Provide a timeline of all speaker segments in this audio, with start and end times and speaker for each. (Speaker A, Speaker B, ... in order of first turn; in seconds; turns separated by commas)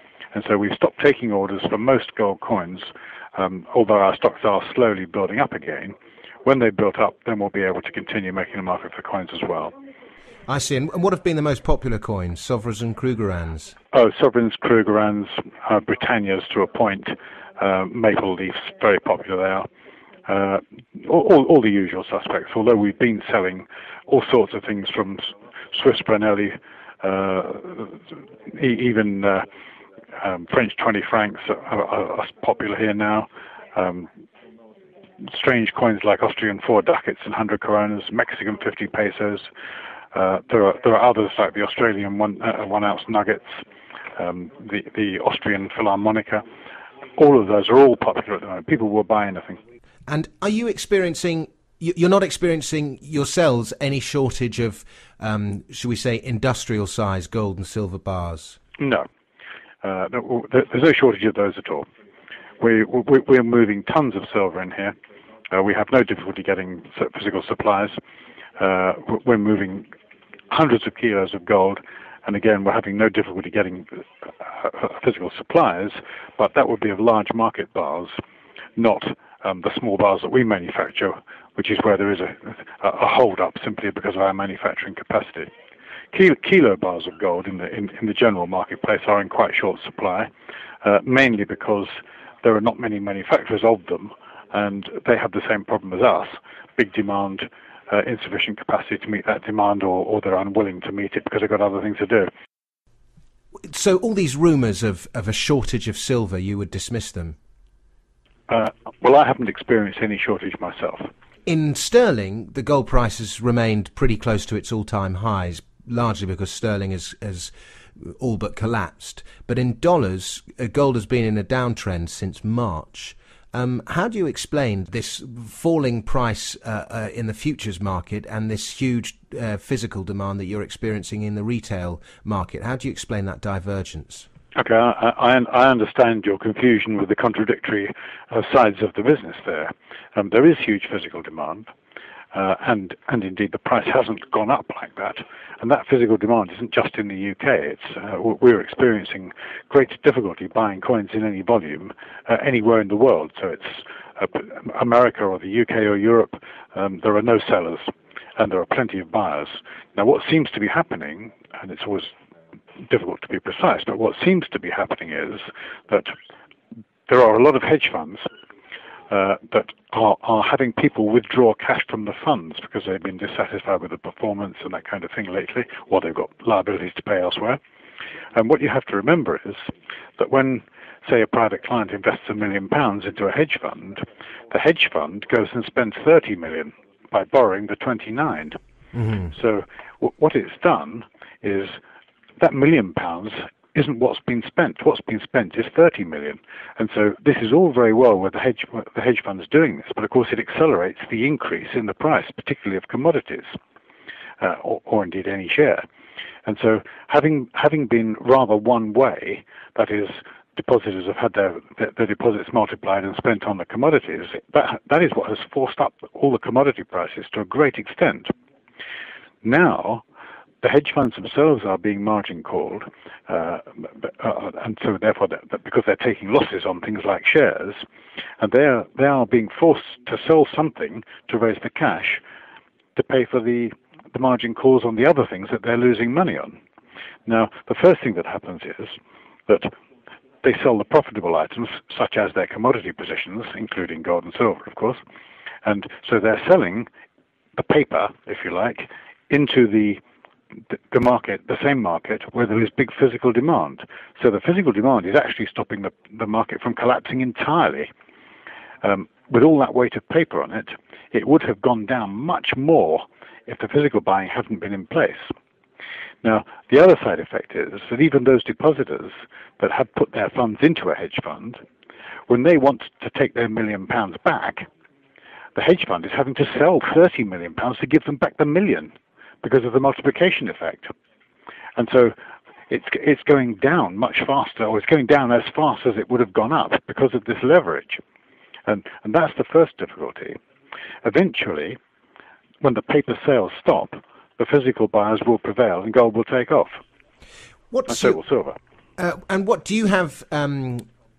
Speaker A: 0.3-9.7, Speaker B: 10.5-13.8, Speaker A: 13.9-19.7, Speaker A: 20.3-29.5, Speaker A: 30.2-34.1, Speaker A: 35.2-39.5, Speaker A: 40.1-43.6, Speaker A: 44.2-46.5, Speaker A: 47.2-49.6, Speaker B: 50.1-58.6, Speaker A: 58.8-59.1, Speaker A: 59.8-61.9, Speaker A: 62.6-65.0, Speaker A: 65.5-68.0, Speaker A: 68.6-69.9, Speaker A: 70.5-78.1, Speaker A: 78.8-85.5, Speaker A: 86.1-90.3, Speaker A: 90.8-102.3, Speaker B: 103.7-107.4, Speaker A: 108.5-111.1, Speaker B: 111.5-134.3, Speaker A: 134.6-141.7, Speaker A: 142.3-162.1, Speaker A: 162.9-166.1, Speaker A: 167.1-168.2, Speaker A: 169.1-177.6, Speaker A: 178.4-188.6, Speaker A: 189.3-191.8, Speaker A: 192.4-203.6, Speaker A: 204.4-205.8, Speaker A: 206.5-218.3, Speaker A: 219.4-220.0, Speaker A: 220.6-227.8, Speaker A: 228.4-232.2, Speaker A: 232.9-236.6, Speaker A: 237.3-239.7, Speaker A: 240.4-245.0, Speaker A: 245.7-246.9, Speaker A: 247.6-250.0, Speaker A: 250.7-257.9, Speaker A: 258.8-265.3, Speaker A: 266.2-271.6, Speaker A: 272.3-274.7, Speaker A: 275.6-280.9, Speaker A: 281.8-282.1, Speaker A: 282.7-288.0, Speaker A: 288.7-290.4, Speaker A: 291.0-291.8, Speaker A: 292.6-296.8, Speaker B: 297.7-298.2, Speaker A: 297.9-298.6, Speaker B: 299.0-300.9